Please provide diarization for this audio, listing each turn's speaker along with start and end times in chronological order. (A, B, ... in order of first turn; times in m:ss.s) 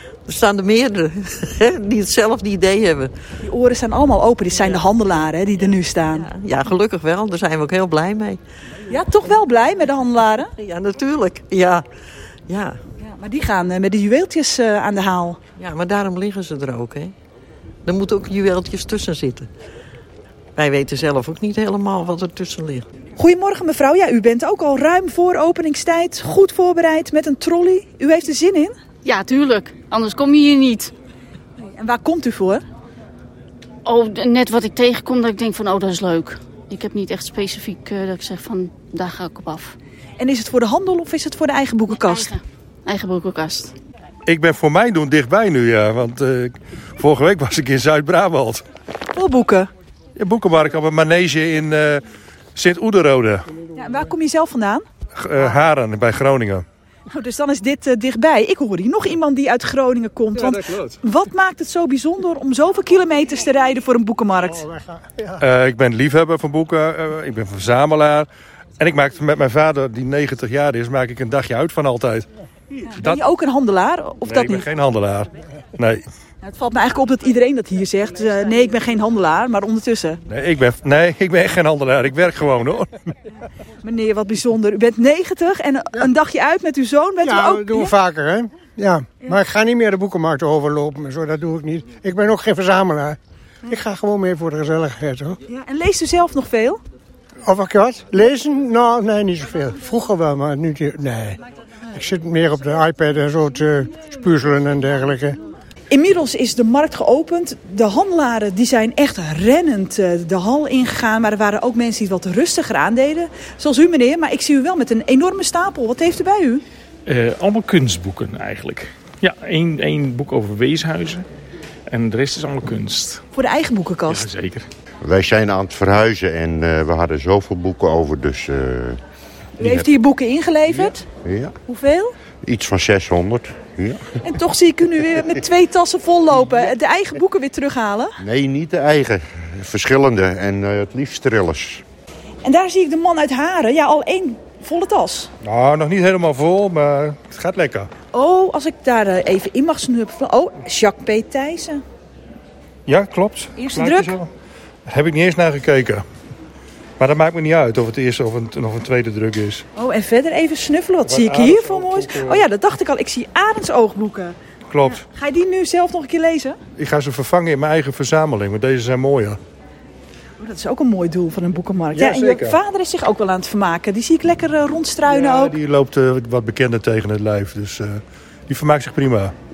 0:00.2-0:03.1 A
0:03.4-0:06.3 B
0:06.1-0:08.4 A
0:08.9-0:10.5 B
0:10.5-0:11.8 A
0:12.5-0:12.8 A
0:13.0-0:15.4 B
0:15.6-0:17.1 A
0:17.8-0:19.5 A
0:20.6-0:22.8 A
0:23.2-0:28.7 B
0:29.0-0:30.9 C
0:31.8-0:32.6 B
0:33.8-0:39.8 C
0:40.2-0:42.3 B
0:42.0-0:43.7 C
0:44.2-0:48.6 D
0:49.1-0:49.7 B
0:50.2-0:52.0 D
0:52.5-0:53.5 D
0:53.7-0:54.8 B
0:55.1-0:56.6 D
0:57.1-1:04.7 B
1:04.7-1:05.4 E
1:05.4-1:08.3 D
1:08.8-1:12.3 D
1:12.9-1:14.6 B
1:14.3-1:16.0 D
1:16.4-1:20.2 B
1:20.3-1:22.9 D
1:23.8-1:27.9 B
1:27.2-1:35.4 E
1:35.5-1:36.8 B
1:37.4-1:41.4 E
1:41.9-1:45.4 E
1:45.9-1:56.6 B
1:57.0-2:01.2 F
2:01.9-2:03.2 F
2:03.3-2:04.3 B
2:04.1-2:04.7 F
2:05.0-2:09.0 G
2:09.6-2:11.0 B
2:11.2-2:11.5 G
2:11.7-2:12.1 B
2:12.4-2:14.1 G
2:14.2-2:18.2 B
2:18.2-2:21.8 G
2:22.4-2:25.3 B
2:25.4-2:27.9 D
2:28.1-2:31.8 B
2:32.9-2:34.3 D
2:33.6-2:34.2 B
2:34.9-2:36.0 D
2:37.0-2:39.6 D
2:39.8-2:46.6 B
2:41.1-2:42.4 D
2:44.7-2:45.0 D
2:46.8-2:49.4 D
2:50.4-2:55.6 B
2:51.9-2:52.6 D
2:55.1-2:59.3 D